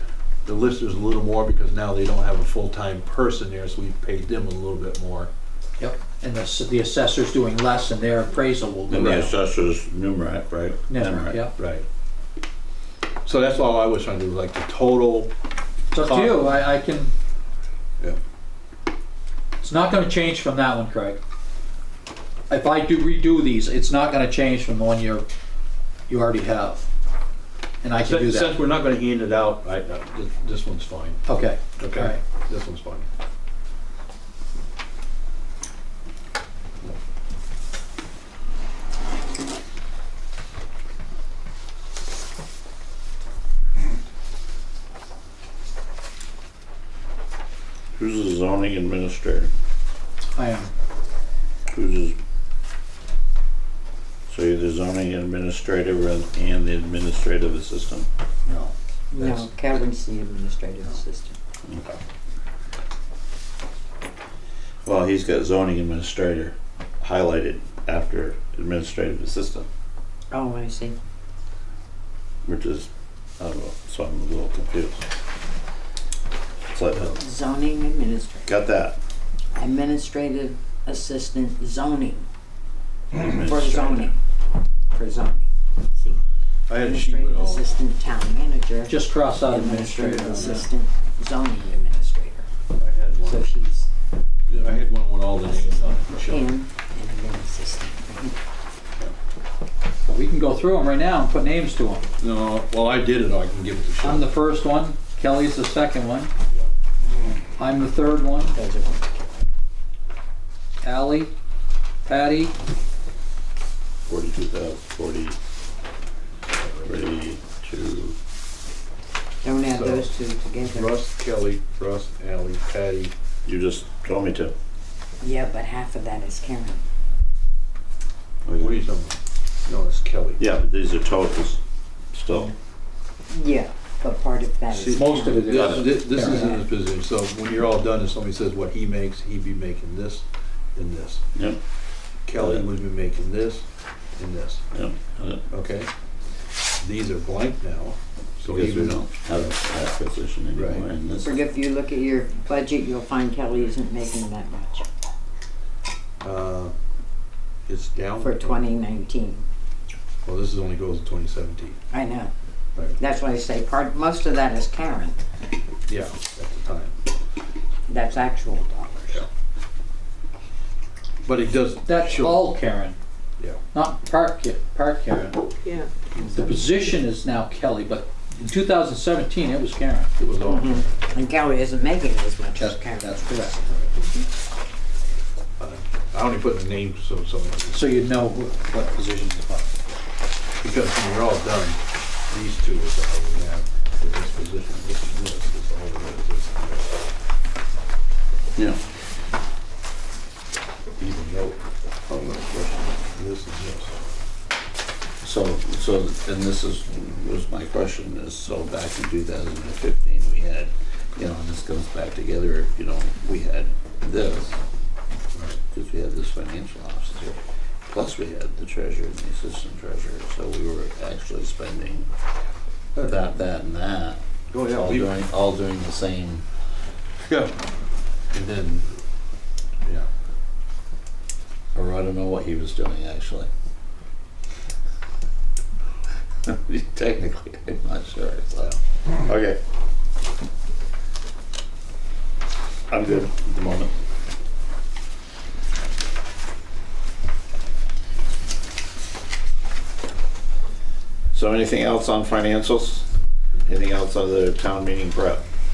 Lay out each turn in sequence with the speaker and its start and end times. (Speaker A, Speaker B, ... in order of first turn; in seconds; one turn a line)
Speaker A: 0.4-5.3
Speaker B: 5.8-9.3
Speaker C: 8.9-11.4
Speaker A: 8.9-9.2
Speaker B: 10.9-11.5
Speaker A: 11.6-11.8
Speaker A: 13.2-15.3
Speaker B: 15.9-17.1
Speaker A: 15.9-16.5
Speaker B: 19.6-21.2
Speaker B: 22.5-25.2
Speaker B: 26.1-26.9
Speaker B: 27.8-28.6
Speaker A: 28.0-31.2
Speaker B: 31.2-32.2
Speaker A: 31.8-33.1
Speaker C: 47.9-49.5
Speaker B: 50.3-50.7
Speaker C: 51.7-52.2
Speaker C: 54.3-58.1
Speaker A: 58.5-59.5
Speaker D: 59.1-61.4
Speaker C: 61.6-62.0
Speaker C: 64.8-69.7
Speaker D: 70.3-71.0
Speaker C: 72.4-75.0
Speaker C: 76.7-77.2
Speaker D: 77.1-78.5
Speaker C: 78.5-79.0
Speaker D: 79.5-82.3
Speaker C: 83.2-83.9
Speaker D: 83.2-84.1
Speaker D: 84.9-86.2
Speaker A: 86.7-87.7
Speaker D: 86.7-92.5
Speaker B: 88.9-90.7
Speaker A: 90.1-90.7
Speaker A: 92.8-93.5
Speaker D: 93.2-93.9
Speaker A: 94.5-96.5
Speaker D: 95.4-98.4
Speaker B: 100.1-102.0
Speaker A: 102.2-104.3
Speaker B: 104.0-106.3
Speaker B: 107.6-108.5
Speaker D: 108.5-109.3
Speaker B: 110.8-111.3
Speaker B: 112.0-112.5
Speaker C: 114.1-115.4
Speaker A: 116.6-117.0
Speaker C: 116.8-118.2
Speaker D: 119.4-121.0
Speaker A: 119.7-120.1
Speaker A: 120.6-123.1
Speaker C: 123.5-124.5
Speaker D: 125.2-126.8
Speaker C: 128.4-128.8
Speaker A: 128.6-130.4
Speaker C: 130.4-131.6
Speaker C: 132.1-132.5
Speaker D: 133.3-136.6
Speaker A: 134.7-141.2
Speaker B: 134.9-136.6
Speaker C: 135.5-135.9
Speaker A: 142.2-143.7
Speaker C: 142.4-142.7
Speaker A: 144.2-144.6
Speaker C: 144.7-145.4
Speaker A: 145.5-145.9
Speaker A: 146.8-149.5
Speaker C: 148.4-151.5
Speaker A: 150.5-150.9
Speaker D: 151.2-154.8
Speaker A: 156.2-156.7
Speaker A: 157.7-158.6
Speaker D: 158.2-159.4
Speaker A: 160.2-161.8
Speaker D: 161.9-162.3
Speaker D: 163.0-165.2
Speaker A: 165.9-166.9
Speaker D: 167.9-169.2
Speaker A: 171.2-172.5
Speaker B: 171.8-173.0
Speaker B: 173.7-175.5
Speaker B: 176.3-180.1
Speaker A: 180.2-180.9
Speaker D: 180.4-183.6
Speaker B: 182.6-183.8
Speaker A: 185.6-187.8
Speaker B: 187.7-189.7
Speaker A: 190.6-197.0
Speaker C: 198.6-198.8
Speaker A: 201.0-201.6
Speaker C: 202.1-202.9
Speaker A: 203.0-204.0
Speaker C: 205.2-214.6
Speaker A: 215.3-215.6
Speaker C: 215.7-222.1
Speaker A: 222.9-223.2
Speaker C: 223.0-226.4
Speaker A: 224.5-225.1
Speaker A: 227.2-227.5
Speaker A: 228.3-229.0
Speaker C: 231.7-233.5
Speaker C: 236.4-239.6
Speaker C: 242.9-243.9
Speaker C: 251.3-253.1
Speaker C: 253.6-255.4